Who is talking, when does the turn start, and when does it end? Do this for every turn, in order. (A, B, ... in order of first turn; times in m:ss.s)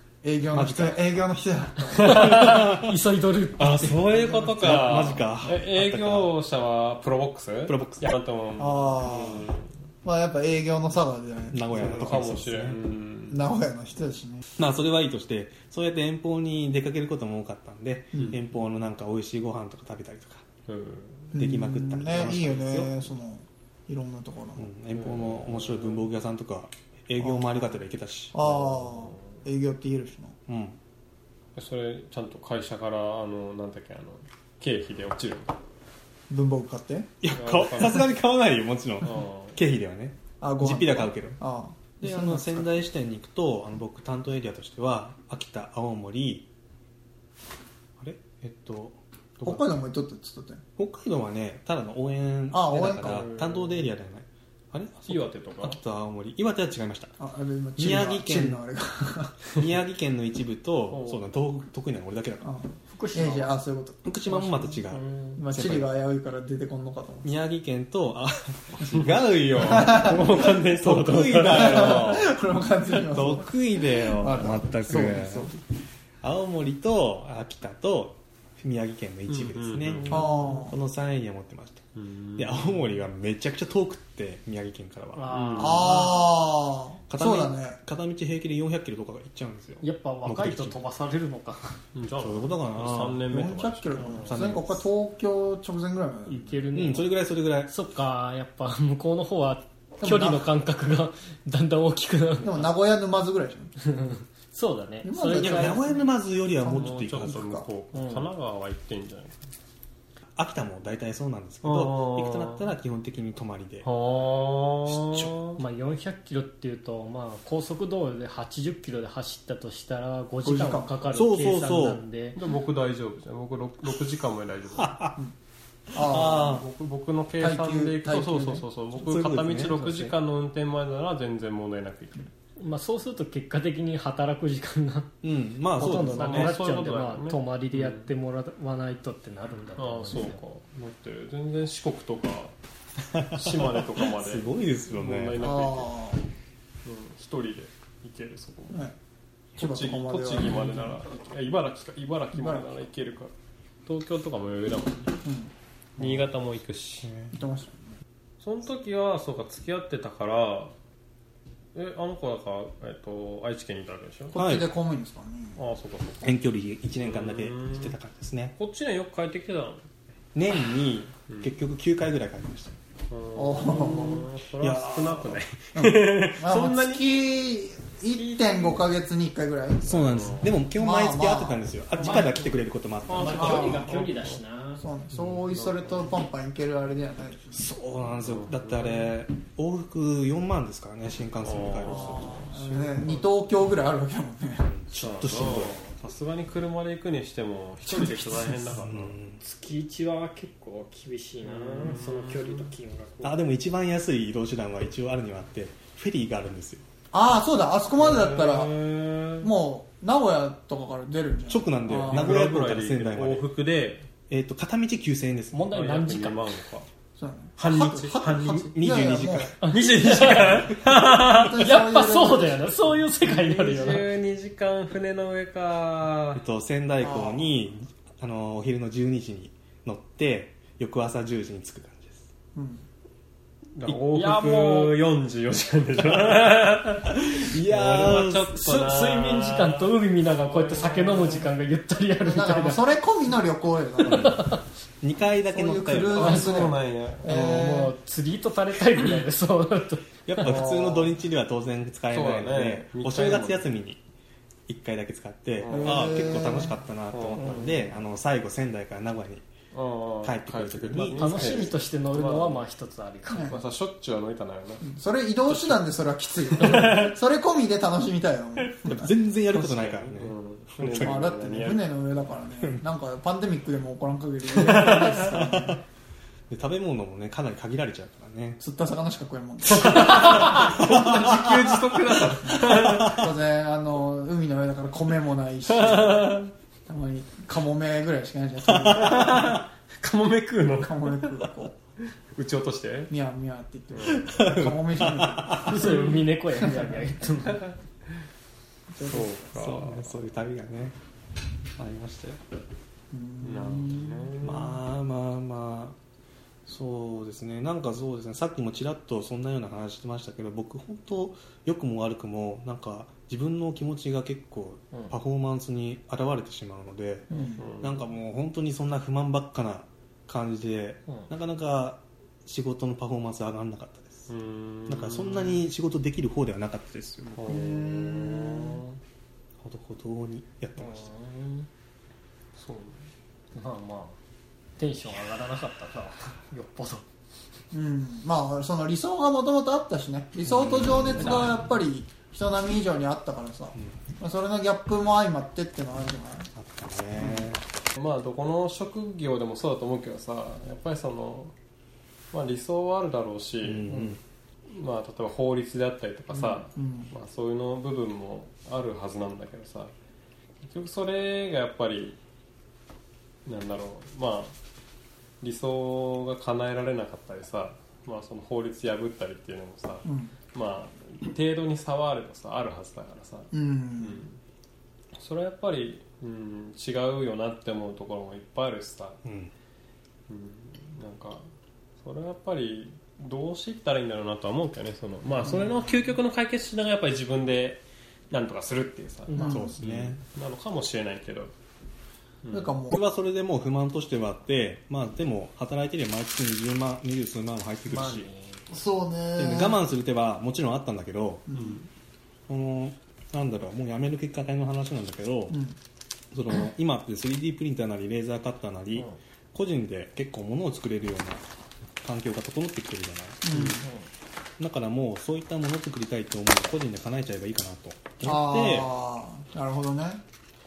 0:00.2-0:02.4 A
0:00.5-0:01.1 B
0:02.0-0:04.0 C
0:02.0-0:02.3 D
0:02.1-0:03.0 B
0:03.6-0:06.3 B
0:03.6-0:09.7 D
0:07.6-0:08.2 B
0:08.6-0:09.5 A
0:10.0-0:12.2 A
0:11.5-0:12.8 B
0:11.7-0:13.4 D
0:13.3-0:14.4 A
0:14.6-0:20.4 B
0:18.1-0:18.4 D
0:20.7-0:21.3 D
0:21.3-0:24.7 A
0:21.3-0:23.1 B
0:22.2-0:22.5 D
0:24.6-0:28.4 B
0:24.9-0:26.1 D
0:27.2-0:27.8 A
0:28.3-0:30.4 A
0:28.4-0:29.4 D
0:30.5-0:30.8 B
0:31.5-0:35.5 D
0:36.3-0:37.1 A
0:37.2-0:41.4 B
0:37.3-0:38.1 D
0:39.0-0:39.6 D
0:40.4-0:42.7 A
0:42.0-0:46.5 B
0:48.0-0:49.7 B
0:49.4-0:50.6 A
0:50.8-0:57.2 B
0:52.5-0:53.3 A
0:53.0-0:53.9 D
0:55.0-0:55.8 D
0:57.2-0:59.5 A
0:57.8-0:58.6 B
0:59.5-1:02.5 B
1:00.9-1:01.2 D
1:02.4-1:04.1 A
1:02.9-1:03.5 C
1:04.0-1:05.9 B
1:04.9-1:05.4 D
1:05.4-1:07.3 A
1:07.2-1:12.3 B
1:08.9-1:12.3 D
1:09.6-1:10.5 A
1:11.4-1:15.6 A
1:13.1-1:15.5 B
1:16.2-1:25.3 B
1:19.3-1:20.5 D
1:20.1-1:20.8 A
1:22.0-1:23.0 D
1:25.1-1:26.3 C
1:25.3-1:26.0 D
1:25.6-1:27.8 A
1:27.1-1:30.8 B
1:29.8-1:31.8 C
1:31.9-1:34.4 D
1:32.2-1:34.8 B
1:33.3-1:36.6 A
1:36.2-1:37.1 C
1:36.7-1:37.7 B
1:37.6-1:42.7 C
1:40.0-1:40.5 A
1:42.4-1:43.7 A
1:43.8-1:45.9 C
1:45.0-1:46.0 A
1:45.4-1:47.5 B
1:46.6-1:47.7 A
1:46.7-1:49.4 D
1:47.9-1:48.3 C
1:50.4-1:53.8 B
1:51.6-1:52.6 D
1:53.8-1:55.6 D
1:54.9-1:55.3 B
1:55.6-2:02.4 C
2:00.4-2:01.0 A
2:01.1-2:02.0 B
2:02.3-2:04.9 D
2:04.7-2:05.2 B
2:05.9-2:06.6 A
2:05.9-2:06.7 B
2:06.2-2:12.3 D
2:07.4-2:08.6 A
2:08.9-2:10.1 B
2:12.6-2:15.1 C
2:15.2-2:16.6 B
2:15.7-2:20.4 C
2:16.0-2:18.1 D
2:19.8-2:22.5 D
2:23.1-2:25.5 B
2:23.2-2:26.0 D
2:25.4-2:26.2 A
2:26.8-2:28.8 D
2:29.6-2:31.0 A
2:29.6-2:33.3 D
2:32.3-2:32.7 A
2:33.8-2:35.2 D
2:35.2-2:35.5 A
2:36.0-2:37.1 D
2:37.0-2:37.3 B
2:37.3-2:37.9 A
2:38.4-2:40.7 D
2:41.7-2:44.4 D
2:44.3-2:45.6 A
2:44.3-2:44.7 B
2:45.6-2:46.3 D
2:46.2-2:48.5 B
2:47.0-2:47.9 D
2:48.6-2:49.8 D
2:50.3-2:52.8 B
2:53.1-2:57.1 D
2:53.3-2:54.3 A
2:54.6-2:55.4 B
2:55.7-3:02.1 A
2:58.1-2:58.9 D
2:59.8-3:03.8 B
3:00.0-3:00.5 D
3:02.0-3:02.5 C
3:03.1-3:04.4 D
3:03.1-3:04.8 C
3:03.3-3:03.9 A
3:04.8-3:07.6 A
3:05.5-3:06.1 D
3:07.5-3:12.4 B
3:08.2-3:09.1 D
3:11.4-3:13.3 D
3:11.8-3:14.7 A
3:14.6-3:15.8 B
3:15.0-3:19.2 D
3:17.9-3:18.4 C
3:18.7-3:19.4 B
3:19.4-3:23.4 C
3:21.4-3:22.7 D
3:23.2-3:26.8 B
3:27.1-3:28.8 A
3:28.0-3:29.5 D
3:29.4-3:32.4 A
3:31.5-3:33.4 B
3:31.9-3:34.1 D
3:34.3-3:35.7 B
3:35.5-3:36.4 C
3:35.7-3:36.9 D
3:37.2-3:39.6 A
3:37.6-3:38.8 D
3:38.5-3:39.5 B
3:39.6-3:40.6 C
3:39.6-3:41.7 D
3:40.9-3:42.7 A
3:41.6-3:44.1 C
3:43.2-3:46.4 D
3:46.3-3:52.2 B
3:47.0-3:47.5 A
3:52.5-3:52.8 A
3:53.8-4:01.5 D
3:53.8-3:54.8 B
3:57.1-3:58.5 B
3:58.5-4:02.8 C
4:02.2-4:04.6 A
4:04.0-4:04.5 B
4:04.0-4:04.6 C
4:05.0-4:06.6 B
4:05.5-4:07.9 A
4:06.2-4:07.3 D
4:06.2-4:06.7 C
4:07.2-4:10.6 C
4:10.2-4:14.0 B
4:10.4-4:11.1 A
4:12.1-4:13.6 D
4:14.7-4:19.4 B
4:15.6-4:16.4 D
4:15.7-4:16.8 A
4:17.1-4:17.6 D
4:17.4-4:17.8 C
4:19.7-4:22.6 D
4:20.2-4:21.7 B
4:21.0-4:23.6 C
4:23.3-4:23.6 A
4:23.4-4:24.9 D
4:24.8-4:29.1 A
4:26.5-4:27.2 D
4:28.8-4:31.2 B
4:29.5-4:32.2 D
4:31.0-4:35.8 A
4:34.5-4:35.4 D
4:35.3-4:35.8 B
4:36.5-4:38.6 B
4:38.6-4:40.8 A
4:39.6-4:43.3 D
4:40.5-4:41.8 B
4:42.4-4:49.6 A
4:42.8-4:43.2 B
4:45.7-4:46.5 D
4:48.8-4:49.4 B
4:48.8-4:51.5 D
4:50.8-4:51.7 A
4:52.3-4:53.1 D
4:53.1-4:56.0 A
4:53.9-4:54.3 D
4:54.1-4:55.8 B
4:55.6-4:57.7 C
4:55.7-4:56.2 D
4:58.9-4:59.3 A
4:59.0-5:00.1 D
4:59.5-5:00.9 B
5:01.8-5:02.4 B
5:03.1-5:04.3 A
5:03.4-5:04.8 D
5:04.4-5:06.0 B
5:06.6-5:17.3 B
5:17.3-5:17.6 A
5:17.6-5:18.0 D
5:17.8-5:24.3 B
5:24.3-5:25.6 D
5:24.9-5:27.4 B
5:27.3-5:29.0 D
5:27.4-5:28.8 A
5:29.6-5:31.1 B
5:30.8-5:31.7 C
5:32.6-5:33.1 D
5:33.5-5:34.2 C
5:34.8-5:37.0 C
5:37.7-5:46.5 A
5:40.5-5:41.4 B
5:46.5-5:47.6 B
5:47.2-5:47.5 A
5:48.0-5:51.5 D
5:52.3-5:54.1 D
5:53.6-5:54.2 B
5:54.7-5:59.9 D
5:56.3-5:57.1 A
6:00.6-6:02.2 D
6:03.4-6:04.6 D
6:05.4-6:14.4 D
6:10.0-6:10.3 A
6:13.5-6:14.2 A
6:15.1-6:19.2 D
6:19.2-6:19.5 B
6:20.3-6:21.4 D
6:22.0-6:31.5 D
6:29.3-6:29.7 C
6:29.3-6:29.7 A
6:29.5-6:30.2 B
6:32.4-6:32.7 D
6:32.5-6:33.0 A
6:32.9-6:38.3 B
6:37.9-6:38.7 C
6:38.7-6:39.8 A
6:39.4-6:41.4 B
6:41.5-6:41.8 A
6:41.5-6:41.9 D
6:42.5-6:45.6 B
6:45.5-6:45.8 A
6:46.3-6:51.4 B
6:52.0-6:53.8 B
6:53.4-6:53.9 A
6:54.6-6:58.9 B
6:58.2-7:00.2 A